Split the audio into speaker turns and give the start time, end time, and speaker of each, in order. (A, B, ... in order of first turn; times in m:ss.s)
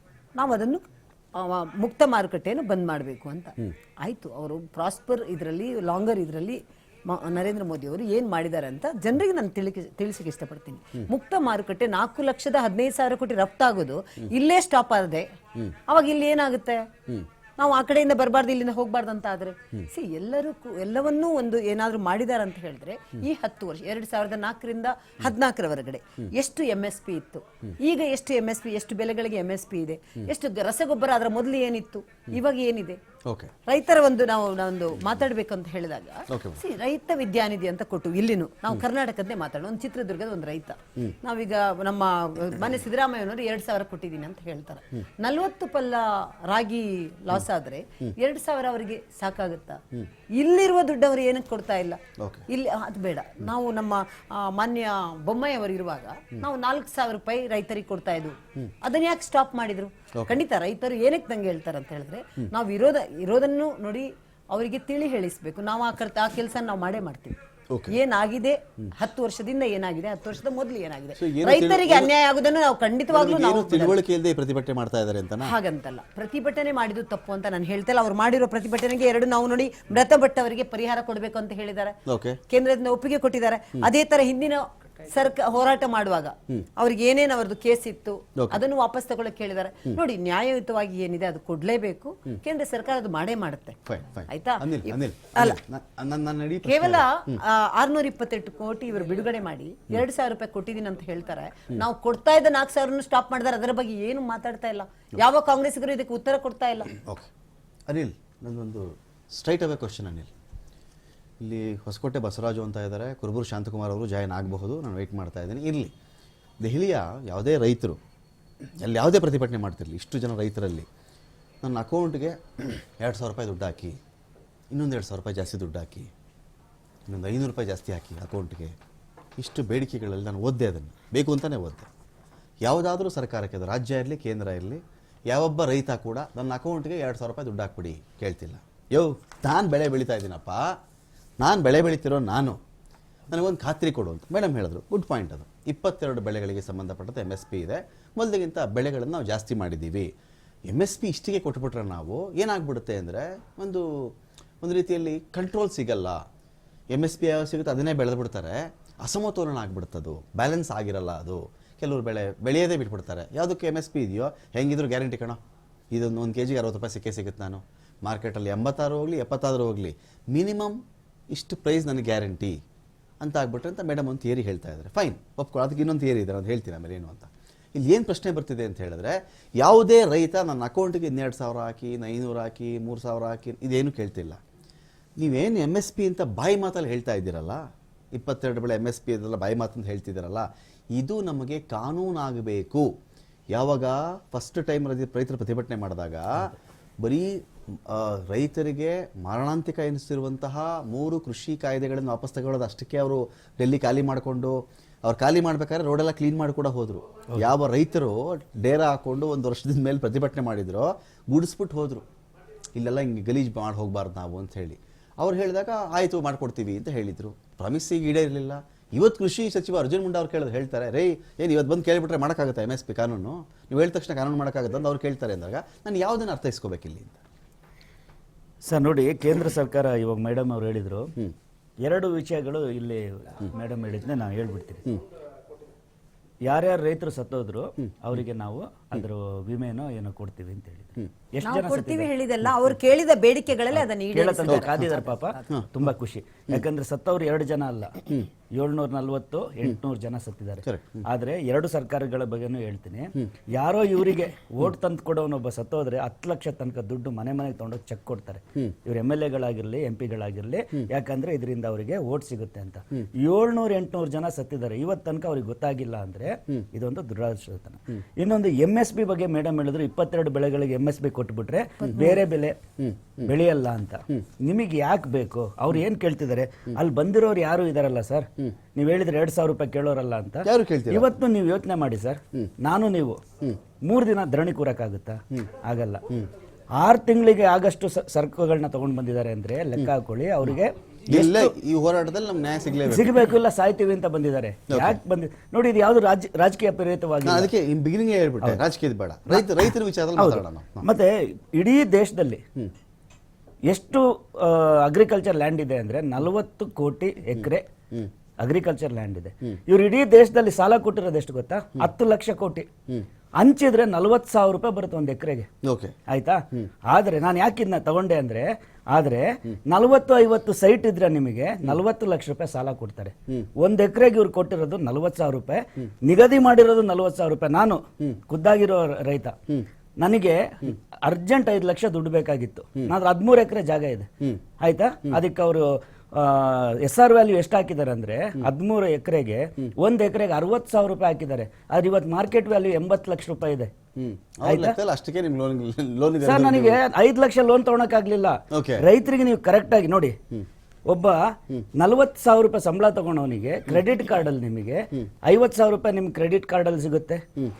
0:00.4-0:16.9 A
0:17.6-0:33.0 A
0:33.2-0:33.6 B
0:33.6-0:49.8 A
0:36.3-0:36.6 B
0:50.4-1:07.4 A
0:52.2-0:52.5 B
1:07.7-1:08.0 B
1:07.9-1:14.0 A
1:11.2-1:12.1 B
1:13.1-1:15.6 B
1:15.4-1:33.8 A
1:22.0-1:22.4 B
1:28.4-1:28.6 B
1:33.8-1:37.4 B
1:34.3-1:35.6 A
1:36.6-1:46.9 A
1:46.9-1:47.3 B
1:47.9-1:50.3 B
1:51.4-1:55.9 B
1:56.6-1:58.0 B
1:58.8-2:00.9 B
2:01.6-2:04.0 B
2:04.7-2:06.1 B
2:07.1-2:08.8 B
2:09.4-2:11.9 B
2:12.6-2:20.7 B
2:21.4-2:22.6 B
2:23.3-2:30.1 B
2:30.7-2:36.2 B
2:36.9-2:45.4 B
2:45.9-2:50.8 B
2:51.3-2:52.6 B
2:53.2-3:04.4 B
3:05.2-3:12.9 B
3:13.5-3:32.0 B
3:32.8-3:47.2 B
3:48.6-3:51.1 C
3:51.8-3:54.8 C
3:56.4-4:02.1 C
4:01.4-4:05.5 A
4:03.7-4:08.0 C
4:04.4-4:04.8 B
4:08.5-4:32.6 C
4:10.6-4:11.0 B
4:31.8-4:32.2 A
4:33.1-4:43.2 C
4:40.4-4:41.1 B
4:43.8-4:46.0 C
4:46.8-4:51.5 C
4:51.1-4:53.2 B
4:52.9-4:57.5 C
4:54.7-4:55.0 B
4:57.2-5:00.9 B
4:59.3-5:02.4 C
5:03.7-5:07.6 C
5:08.4-5:12.7 C
5:13.4-5:15.5 C
5:15.6-5:16.0 B
5:16.1-5:29.4 C
5:30.0-5:34.1 C
5:34.6-5:43.7 C
5:44.0-5:46.8 B
5:44.4-5:44.8 C
5:46.2-5:50.2 C
5:48.5-5:48.9 B
5:50.9-5:57.2 C